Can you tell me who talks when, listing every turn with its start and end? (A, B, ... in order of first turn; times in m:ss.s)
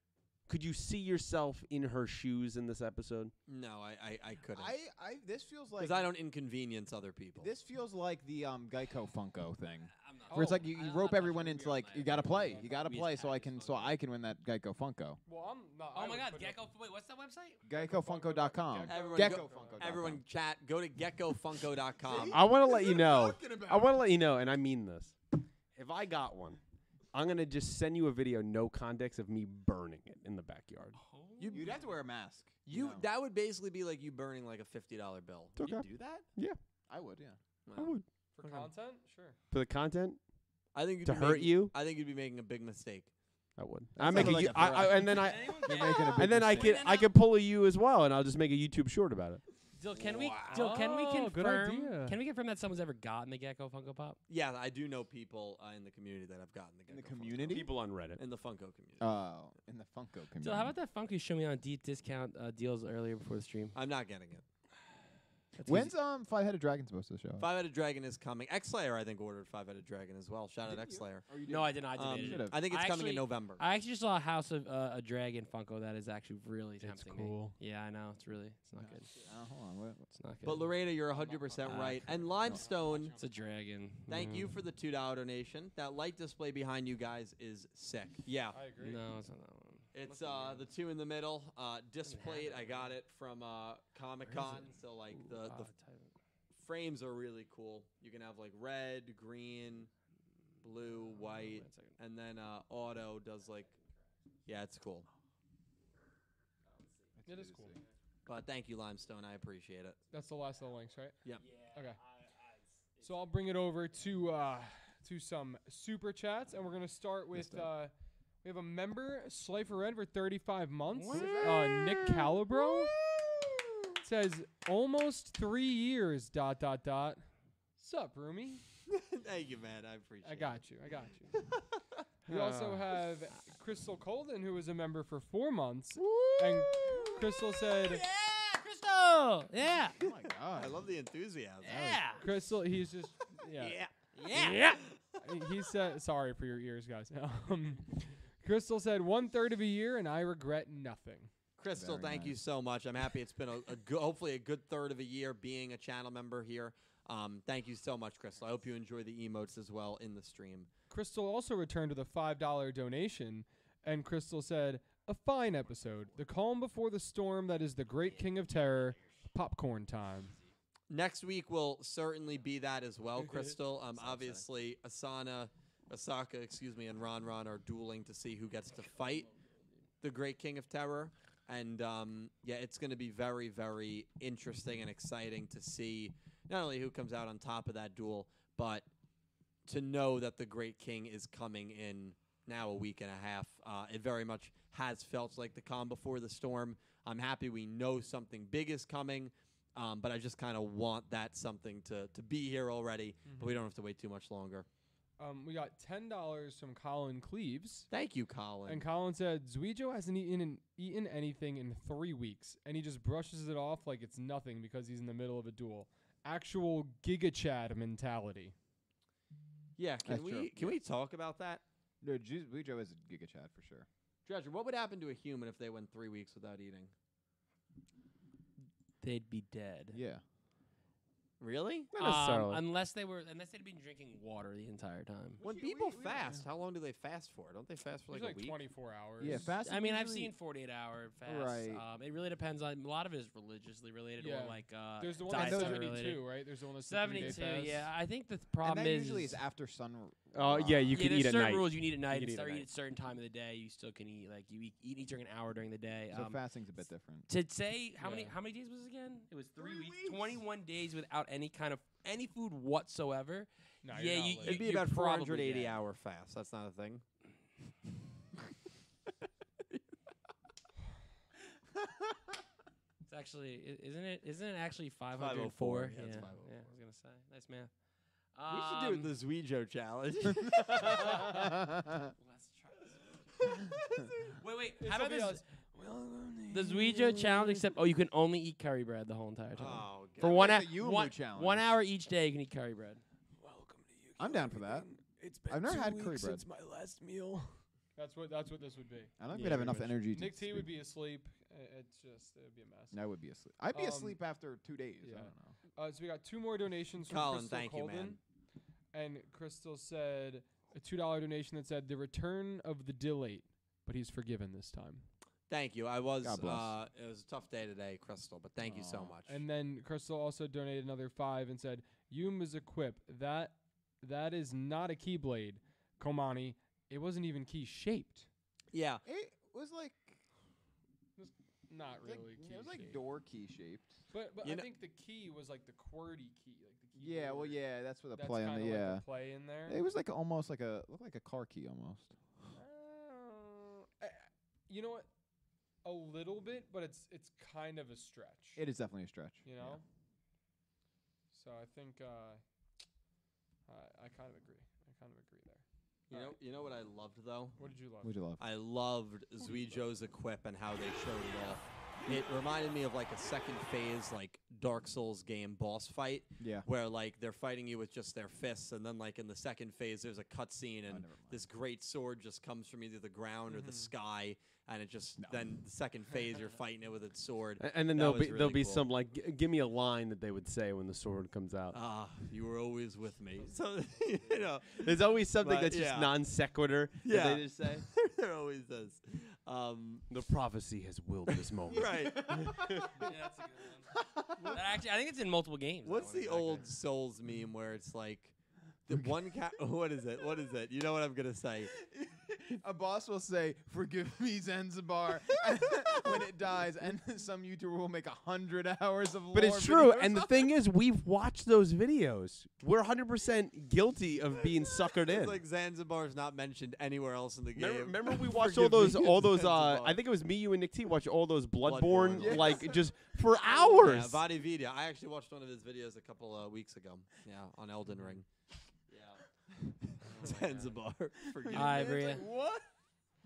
0:00.5-0:03.3 A
0:03.5-0:04.7 B
0:04.5-0:06.1 C
0:05.8-0:07.5 B
0:07.4-0:15.2 C
0:10.0-0:14.0 D
0:10.3-0:10.6 E
0:12.2-0:12.7 E
0:15.2-0:16.6 E
0:15.9-0:17.6 D
0:17.6-0:20.2 C
0:17.7-0:19.9 E
0:18.8-0:22.4 B
0:22.0-0:23.9 C
0:22.3-0:25.2 A
0:25.7-0:26.6 A
0:27.1-0:31.0 A
0:31.0-0:31.7 D
0:31.4-0:31.8 B
0:31.5-0:33.1 C
0:32.7-0:36.2 B
0:35.6-0:36.6 A
0:36.9-0:37.4 C
0:37.6-0:38.7 B
0:37.8-0:38.0 A
0:38.4-0:39.4 E
0:39.5-0:40.2 A
0:40.7-0:43.1 B
0:41.0-0:41.7 A
0:43.6-0:49.4 A
0:44.0-0:46.8 C
0:44.1-0:44.7 B
0:45.0-0:47.1 D
0:49.8-0:54.2 D
0:50.4-0:52.2 E
0:54.3-0:59.0 B
0:56.9-0:57.7 C
0:57.5-0:58.2 A
0:59.0-1:00.7 C
1:00.4-1:03.8 D
1:03.7-1:04.4 B
1:05.6-1:05.9 D
1:05.6-1:07.5 C
1:07.4-1:11.2 B
1:10.6-1:12.6 C
1:11.4-1:19.1 D
1:11.9-1:13.6 B
1:16.8-1:17.6 E
1:18.8-1:20.0 C
1:20.1-1:20.7 D
1:20.4-1:23.2 B
1:21.6-1:24.6 D
1:22.6-1:22.8 E
1:24.1-1:28.6 B
1:28.5-1:29.0 E
1:28.8-1:30.7 D
1:29.9-1:35.7 B
1:32.0-1:32.9 D
1:35.2-1:36.1 D
1:36.5-1:39.9 B
1:40.6-1:43.7 B
1:41.2-1:42.0 D
1:44.4-1:45.1 B
1:47.2-1:47.8 C
1:47.2-1:47.8 E
1:48.2-1:50.0 B
1:50.1-1:51.2 E
1:51.4-1:53.2 D
1:51.7-1:52.0 E
1:53.0-1:57.9 E
1:57.3-1:57.7 C
1:58.4-2:02.9 E
2:00.9-2:02.3 D
2:01.1-2:02.1 C
2:03.1-2:03.4 B
2:04.0-2:07.2 E
2:07.8-2:08.6 E
2:08.9-2:10.6 B
2:10.2-2:11.4 E
2:11.3-2:12.0 B
2:12.3-2:18.0 E
2:16.1-2:20.0 D
2:20.0-2:20.8 C
2:20.5-2:21.9 B
2:21.6-2:22.2 D
2:21.6-2:22.0 C
2:22.2-2:23.8 E
2:23.6-2:24.9 D
2:24.3-2:25.2 B
2:25.2-2:31.3 E
2:31.6-2:40.7 B
2:31.7-2:32.4 C
2:40.9-2:50.4 E
2:48.0-2:49.3 D
2:50.9-2:59.3 B
2:53.9-2:54.4 D
3:00.0-3:08.9 B
3:09.6-3:24.7 B
3:23.2-3:23.6 E
3:25.2-3:27.9 E
3:27.9-3:28.8 B
3:28.7-3:38.5 E
3:39.8-3:41.6 B
3:40.0-3:40.8 C
3:42.0-3:43.9 C
3:44.2-3:46.9 B
3:49.0-3:50.0 D
3:49.9-3:50.2 C
3:51.4-3:51.9 B
3:51.9-3:52.6 A
3:51.9-3:55.4 D
3:55.4-3:56.4 C
3:55.4-3:58.6 B
3:58.1-3:59.6 E
3:59.2-4:00.3 C
3:59.3-4:09.4 D
4:01.2-4:01.8 C
4:04.2-4:07.9 E
4:05.3-4:06.0 C
4:08.6-4:11.0 C
4:10.3-4:12.7 A
4:10.9-4:16.4 D
4:16.1-4:17.3 C
4:17.3-4:25.8 D
4:18.0-4:18.3 E
4:19.6-4:20.4 C
4:23.8-4:24.6 E
4:24.4-4:27.0 B
4:33.0-4:37.7 D
4:35.2-4:36.6 B
4:38.3-4:39.1 D
4:38.5-4:41.3 B
4:40.8-4:41.4 D
4:42.2-4:43.1 D
4:43.4-4:44.3 B
4:44.4-4:45.4 D
4:44.8-4:45.4 E
4:45.8-4:47.6 A
4:46.5-4:53.0 D
4:49.5-4:50.4 B
4:50.2-4:51.8 C
4:53.4-4:54.2 A
4:54.2-4:54.9 C
4:54.7-4:57.4 A
4:55.5-4:56.4 C
4:58.0-5:03.0 E
4:59.2-5:00.7 C
5:02.9-5:05.5 C
5:03.7-5:04.2 E
5:05.0-5:08.2 E
5:07.0-5:08.2 B
5:08.9-5:15.0 E
5:15.5-5:19.4 B
5:16.2-5:16.7 C
5:18.6-5:19.2 C
5:19.3-5:28.3 E
5:28.7-5:29.0 B
5:29.0-5:30.2 C
5:31.2-5:33.0 E
5:32.0-5:34.0 C
5:34.1-5:37.6 E
5:34.4-5:34.7 B
5:37.0-5:39.0 C
5:38.2-5:39.8 E
5:39.6-5:42.1 C
5:42.5-5:45.1 E
5:45.8-5:48.6 E
5:48.6-5:49.8 C
5:49.4-5:49.8 E
5:51.3-5:52.4 E
5:53.7-5:56.4 E
5:56.1-5:57.6 B
5:57.6-5:58.1 E
5:58.0-5:58.4 C
5:58.4-6:18.8 B
6:06.4-6:06.7 C
6:10.9-6:11.5 C
6:13.5-6:13.9 E
6:15.2-6:15.5 C
6:17.6-6:21.8 A
6:21.7-6:26.2 B
6:24.8-6:27.8 A
6:27.0-6:30.1 B
6:30.1-6:32.9 A
6:31.5-6:32.6 B
6:31.7-6:32.9 C
6:33.0-6:36.6 D
6:34.3-6:34.6 B
6:35.8-6:38.3 B
6:38.9-6:41.7 B
6:41.7-6:50.5 C
6:49.3-6:55.4 A
6:55.0-7:00.0 B
6:57.5-7:04.2 A
7:01.6-7:02.7 B
7:02.2-7:02.8 C
7:03.6-7:08.2 B
7:08.9-7:09.2 B
7:10.0-7:11.9 B
7:10.2-7:10.7 D
7:11.3-7:12.7 C
7:11.5-7:12.3 D